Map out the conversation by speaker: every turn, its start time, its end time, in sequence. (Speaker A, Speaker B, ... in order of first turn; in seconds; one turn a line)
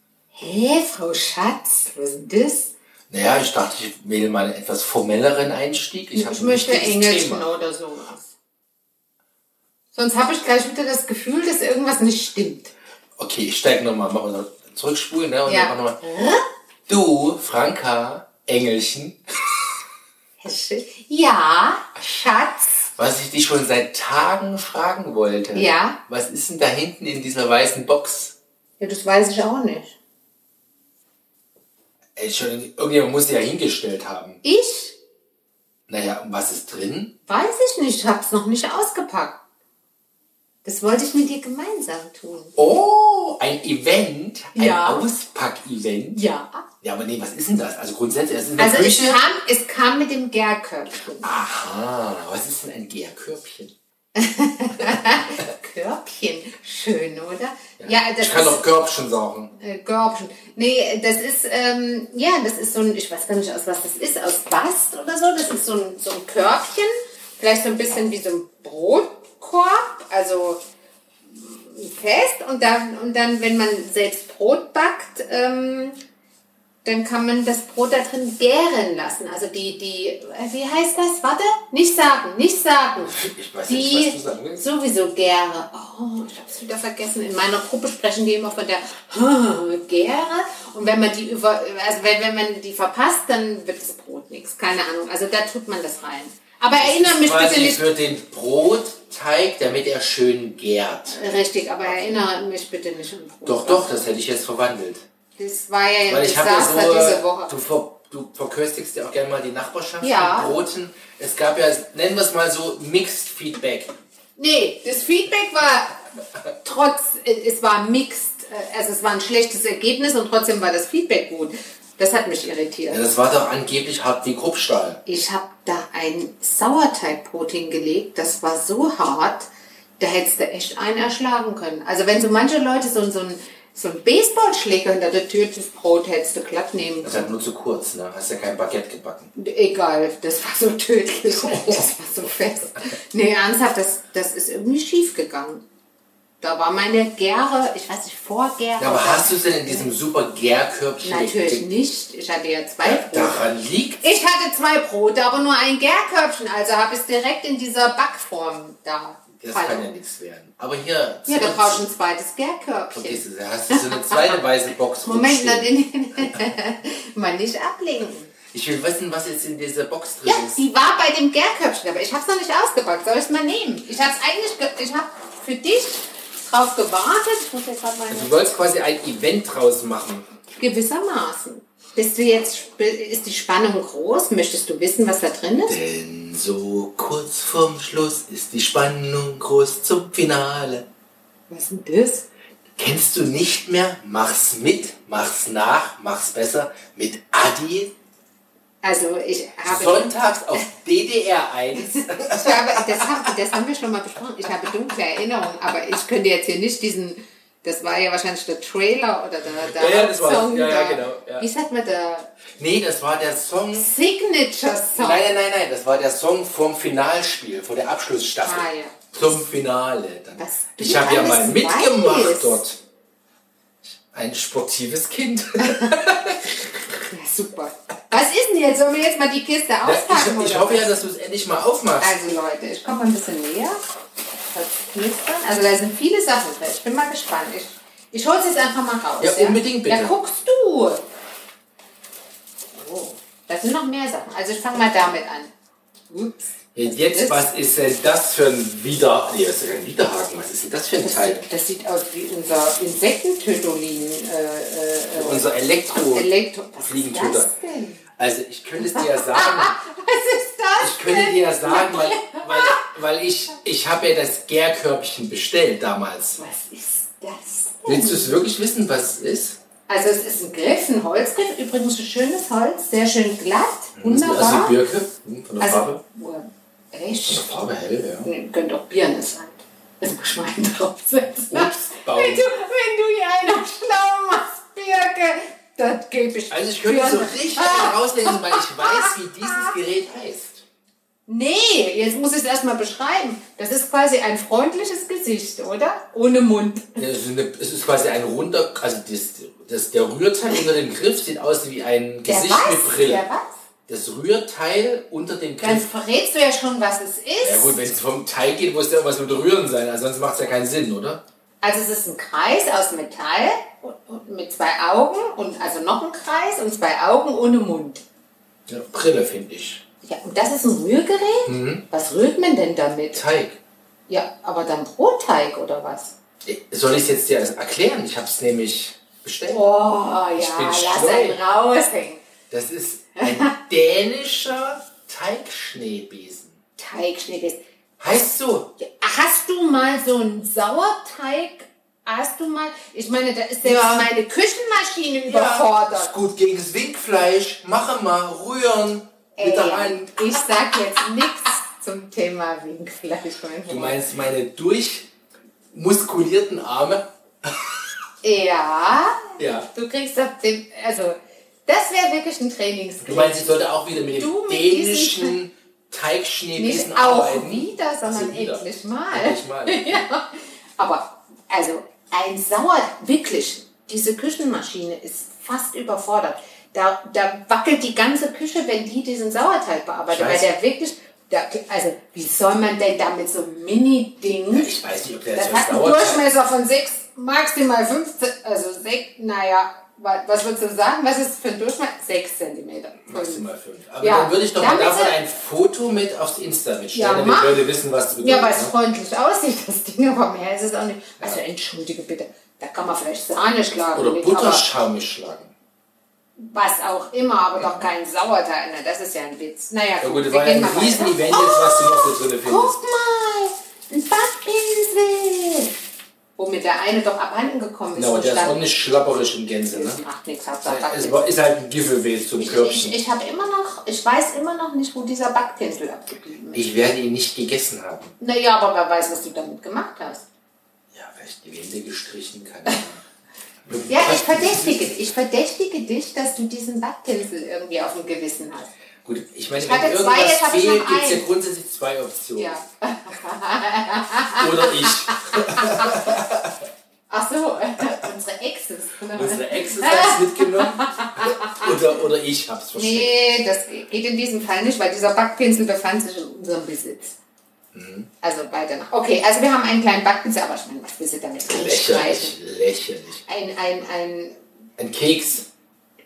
Speaker A: 0.3-2.7
Speaker B: 3.1-7.5
Speaker A: 6.1-8.3
Speaker A: 9.9-12.7
Speaker B: 13.2-16.0
Speaker A: 15.4-16.4
Speaker B: 16.9-19.6
Speaker A: 20.4-22.9
Speaker B: 23.0-28.4
Speaker A: 25.5-26.0
Speaker A: 28.8-29.9
Speaker B: 32.1-34.4
Speaker A: 34.4-35.0
Speaker B: 35.9-37.1
Speaker A: 37.2-39.4
Speaker A: 40.6-42.5
Speaker B: 42.5-46.2
Speaker A: 44.5-45.1
Speaker A: 46.1-46.6
Speaker B: 46.8-49.2
Speaker A: 48.6-51.3
Speaker B: 51.2-53.7
Speaker A: 54.1-58.7
Speaker B: 54.8-55.2
Speaker B: 57.8-59.5
Speaker A: 59.6-70.6
Speaker A: 71.3-76.0
Speaker A: 76.8-97.8
Speaker B: 83.0-84.6
Speaker B: 96.7-101.2
Speaker A: 101.1-103.9
Speaker B: 101.8-102.1
Speaker B: 103.4-105.0
Speaker A: 105.4-107.5
Speaker B: 106.1-113.9
Speaker A: 110.0-110.5
Speaker A: 114.4-116.0
Speaker A: 116.6-123.0
Speaker B: 122.9-125.0
Speaker A: 125.0-129.5
Speaker A: 130.0-137.3
Speaker B: 137.0-139.3
Speaker A: 139.3-145.6
Speaker B: 141.3-141.9
Speaker A: 146.4-149.9
Speaker B: 148.8-151.7
Speaker A: 151.0-153.5
Speaker B: 152.8-154.0
Speaker A: 154.0-159.9
Speaker B: 159.4-161.8
Speaker A: 161.3-164.4
Speaker B: 162.9-166.4
Speaker A: 165.0-168.3
Speaker B: 168.5-170.6
Speaker A: 170.2-178.3
Speaker B: 178.1-180.2
Speaker A: 180.6-185.8
Speaker B: 185.7-190.8
Speaker A: 191.5-192.3
Speaker B: 192.8-197.9
Speaker A: 198.8-200.7
Speaker B: 199.7-203.3
Speaker A: 201.7-212.3
Speaker B: 209.5-211.4
Speaker B: 212.6-213.9
Speaker A: 213.7-215.3
Speaker B: 214.9-222.8
Speaker A: 218.4-219.0
Speaker A: 220.4-222.6
Speaker B: 224.1-226.7
Speaker A: 225.6-225.9
Speaker A: 227.1-230.9
Speaker B: 229.8-232.1
Speaker A: 232.0-233.8
Speaker A: 234.5-241.0
Speaker B: 239.2-240.1
Speaker A: 242.7-245.5
Speaker A: 246.1-247.4
Speaker B: 246.7-251.4
Speaker A: 251.0-258.0
Speaker B: 255.1-257.5
Speaker B: 258.2-259.8
Speaker A: 258.8-262.9
Speaker B: 260.8-266.4
Speaker A: 266.4-268.4
Speaker B: 267.9-269.6
Speaker A: 269.9-274.8
Speaker B: 274.0-276.0
Speaker A: 275.6-277.4
Speaker B: 277.3-278.3
Speaker A: 278.2-289.7
Speaker B: 281.5-282.4
Speaker B: 286.5-290.6
Speaker A: 291.3-297.0
Speaker B: 297.0-303.2
Speaker A: 302.2-303.6
Speaker B: 303.9-305.9
Speaker A: 305.6-307.8
Speaker B: 307.4-311.2
Speaker A: 311.6-318.0
Speaker B: 318.7-319.8
Speaker A: 320.0-323.2
Speaker B: 321.4-321.8
Speaker B: 323.1-323.6
Speaker A: 324.1-326.1
Speaker B: 326.4-329.6
Speaker A: 329.4-332.2
Speaker B: 330.4-331.4
Speaker B: 332.5-336.6
Speaker A: 333.2-333.5
Speaker A: 336.8-337.6
Speaker B: 338.0-338.7
Speaker A: 338.8-346.1
Speaker B: 343.6-344.1
Speaker B: 345.2-350.4
Speaker A: 349.4-354.0
Speaker B: 353.7-355.1
Speaker B: 355.7-357.8
Speaker A: 358.2-365.4
Speaker B: 359.4-359.7
Speaker B: 363.0-370.1
Speaker A: 366.6-384.8
Speaker B: 380.1-380.5
Speaker B: 384.5-386.2
Speaker A: 385.3-393.4
Speaker B: 393.1-398.7
Speaker A: 394.0-395.1
Speaker A: 396.9-397.6
Speaker A: 398.2-404.6
Speaker B: 403.9-405.5
Speaker A: 406.4-415.7
Speaker B: 410.0-412.7
Speaker A: 416.4-418.6
Speaker B: 417.9-420.0
Speaker A: 419.7-421.3
Speaker B: 420.6-422.9
Speaker A: 422.4-426.7
Speaker B: 426.5-428.1
Speaker A: 428.2-430.2
Speaker B: 430.9-433.0
Speaker B: 433.6-434.9
Speaker A: 433.9-438.7
Speaker B: 439.0-442.6
Speaker A: 439.6-441.2
Speaker A: 442.4-446.1
Speaker B: 444.4-446.6
Speaker A: 447.1-451.8
Speaker B: 449.1-453.1
Speaker A: 452.7-457.2
Speaker B: 457.7-458.1
Speaker A: 458.2-462.3
Speaker B: 461.4-463.2
Speaker A: 463.2-464.4
Speaker B: 464.8-465.5